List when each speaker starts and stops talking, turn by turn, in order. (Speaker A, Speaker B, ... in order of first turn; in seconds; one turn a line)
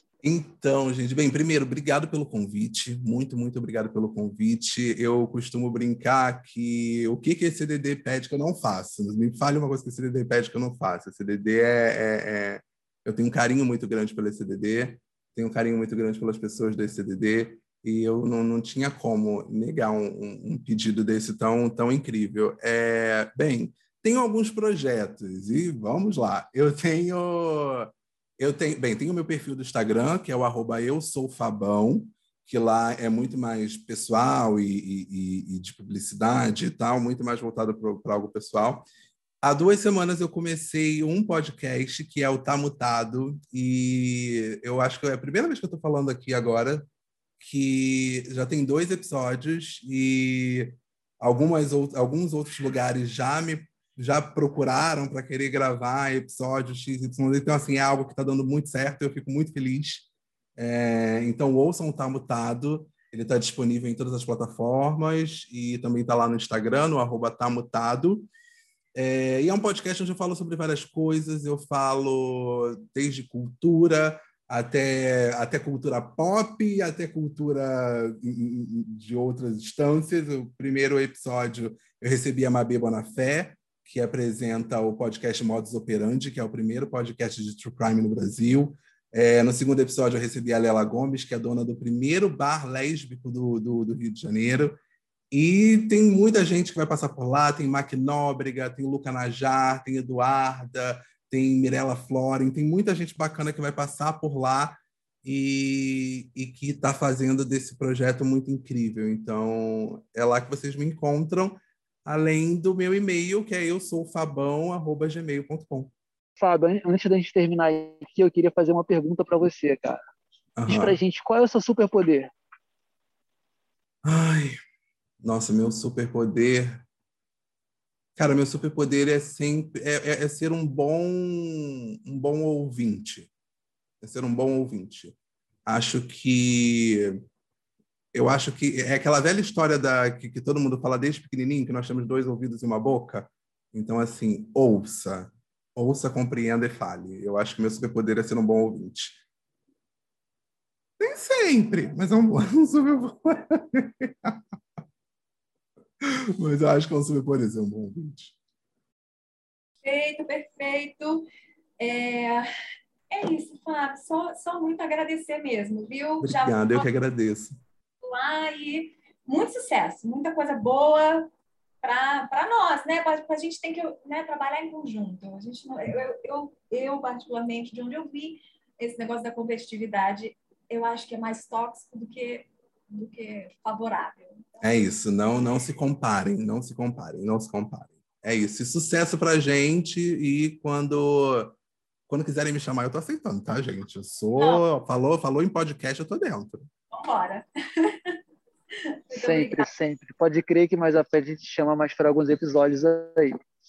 Speaker A: 0.2-38.9
Speaker A: 39.4-46.9
Speaker A: 47.4-68.3
Speaker A: 68.9-94.8
Speaker A: 95.3-115.9
Speaker B: 116.4-120.0
Speaker A: 120.6-121.0
Speaker B: 120.7-122.3
Speaker A: 124.0-124.5
Speaker A: 125.2-126.8
Speaker A: 128.2-133.3
Speaker A: 134.0-137.2
Speaker A: 138.1-149.2
Speaker A: 151.0-154.4
Speaker A: 156.0-158.3
Speaker C: 159.8-161.3
Speaker C: 161.8-162.5
Speaker C: 163.1-166.9
Speaker A: 166.2-167.6
Speaker C: 168.0-171.3
Speaker C: 171.8-184.5
Speaker A: 184.6-191.6
Speaker A: 192.1-196.7
Speaker C: 194.3-194.6
Speaker C: 196.9-198.2
Speaker C: 199.1-199.7
Speaker B: 199.1-203.4